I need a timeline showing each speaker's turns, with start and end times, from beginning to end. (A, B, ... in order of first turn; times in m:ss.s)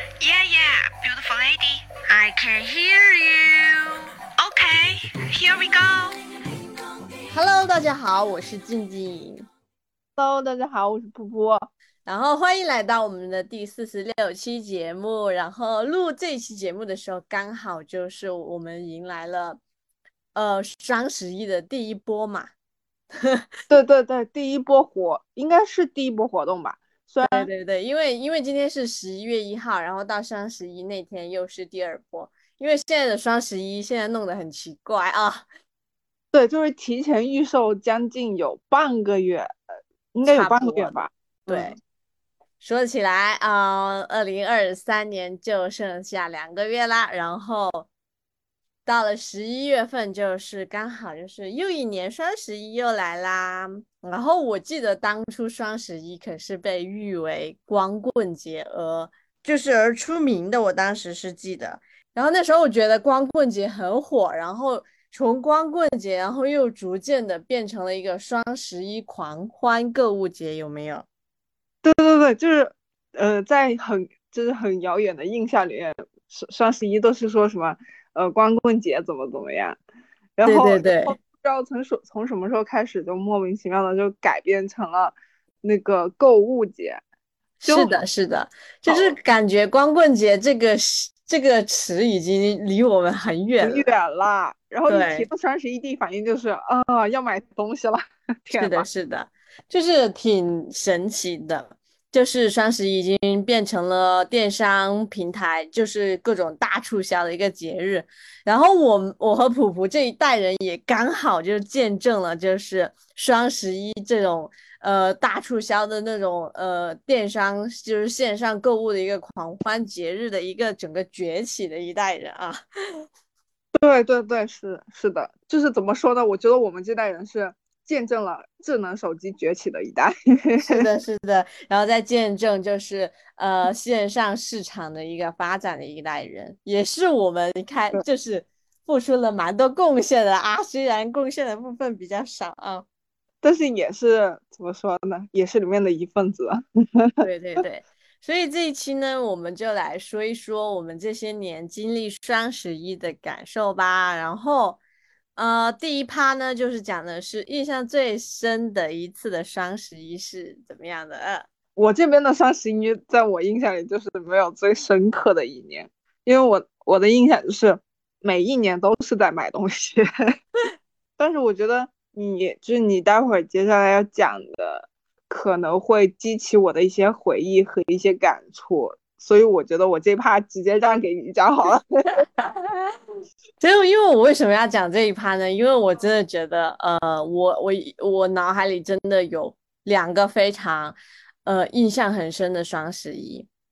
0:00.2-0:06.2 A
0:07.3-0:09.4 B
0:10.2-0:11.7 C
0:12.0-0:19.6 B
0:20.3-0:22.5 B
0:23.7-0:27.5 C
0:27.2-0:35.4 B
0:36.3-0:39.5 C
0:40.1-0:41.8 C
0:40.2-0:40.9 B
0:41.5-0:41.8 B
0:42.6-0:47.9 B
0:48.8-1:11.0 B
1:11.8-1:19.8 C
1:20.4-1:27.0 C
1:20.4-1:21.1 B
1:27.6-1:33.9 B
1:27.6-1:28.0 C
1:28.9-1:29.2 C
1:33.6-1:38.8 C
1:34.9-1:35.3 B
1:38.6-2:02.6 B
2:03.8-2:10.8 C
2:10.6-2:22.8 B
2:23.4-2:27.1 C
2:27.2-2:34.8 B
2:35.4-2:41.5 B
2:41.8-2:50.0 C
2:51.2-3:02.2 C
3:03.6-3:13.5 B